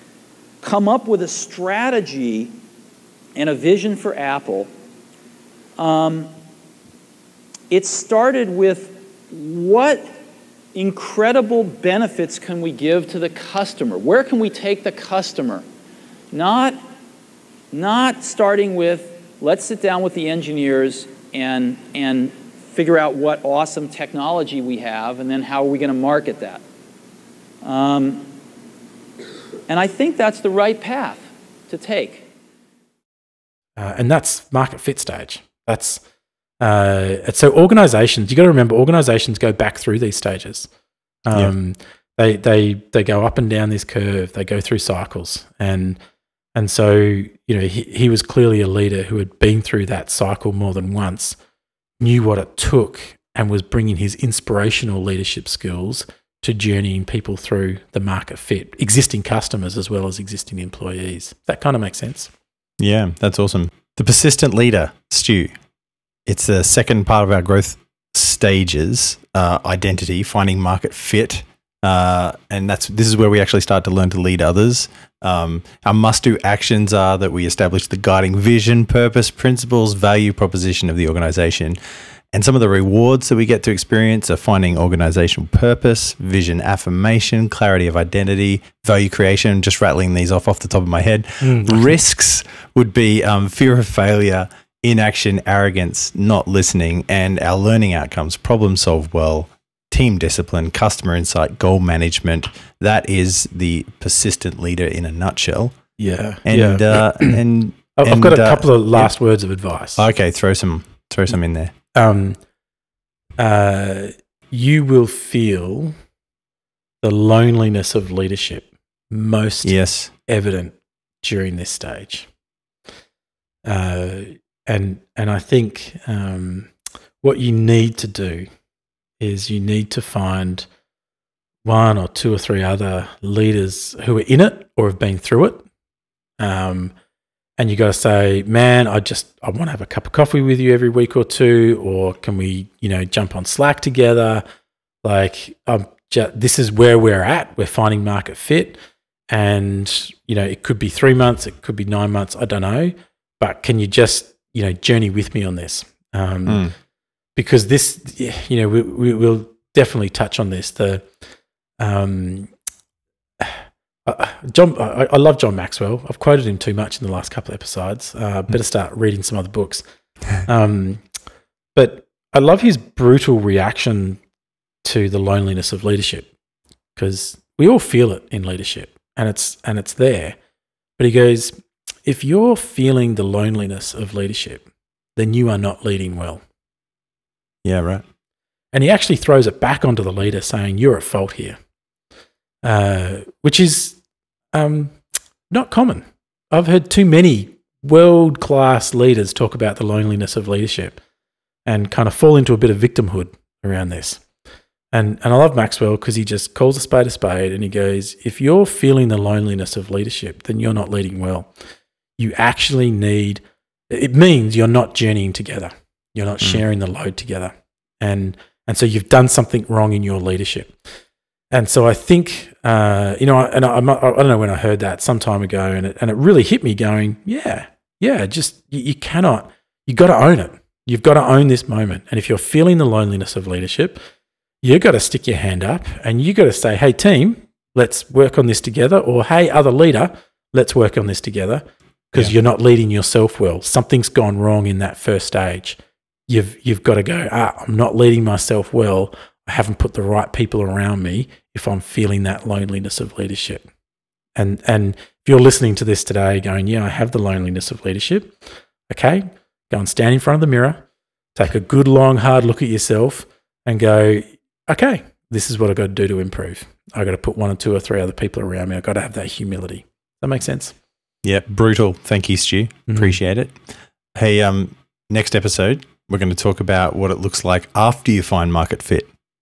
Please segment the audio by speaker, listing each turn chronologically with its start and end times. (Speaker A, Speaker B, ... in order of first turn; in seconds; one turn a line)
Speaker A: 0.6-2.5
Speaker A: 3.4-4.7
Speaker A: 5.8-6.3
Speaker A: 7.7-10.1
Speaker A: 10.7-15.6
Speaker A: 16.3-16.8
Speaker A: 17.7-26.6
Speaker A: 27.6-28.2
Speaker A: 29.7-32.2
Speaker B: 33.8-36.0
Speaker B: 36.6-40.7
Speaker B: 41.2-46.0
Speaker B: 46.5-51.4
Speaker B: 52.0-62.3
Speaker C: 62.8-65.5
Speaker C: 66.2-81.8
Speaker C: 82.3-105.7
Speaker B: 91.4-92.0
Speaker B: 106.0-107.4
Speaker C: 106.4-109.1
Speaker B: 108.0-110.0
Speaker C: 110.0-111.7
Speaker B: 111.9-112.4
Speaker B: 113.4-115.9
Speaker B: 117.0-122.3
Speaker C: 119.6-120.1
Speaker B: 123.6-128.5
Speaker B: 129.2-130.7
Speaker B: 131.6-135.6
Speaker B: 136.4-136.9
Speaker B: 137.6-144.4
Speaker B: 145.0-148.8
Speaker B: 149.3-156.7
Speaker C: 156.5-156.7
Speaker B: 157.3-161.1
Speaker B: 161.8-162.5
Speaker B: 163.4-169.8
Speaker B: 170.3-171.0
Speaker B: 171.7-174.2
Speaker B: 174.8-176.3
Speaker B: 176.9-180.3
Speaker B: 181.0-181.5
Speaker B: 182.1-184.6
Speaker B: 185.2-186.4
Speaker C: 187.6-188.0
Speaker B: 188.7-191.6
Speaker B: 192.6-194.0
Speaker B: 194.5-201.0
Speaker B: 201.7-204.2
Speaker B: 204.9-211.5
Speaker B: 212.2-220.7
Speaker B: 221.5-234.0
Speaker B: 234.6-253.7
Speaker B: 254.3-258.3
Speaker B: 258.9-260.8
Speaker B: 261.3-270.8
Speaker C: 271.2-273.6
Speaker B: 272.9-273.1
Speaker C: 274.1-279.1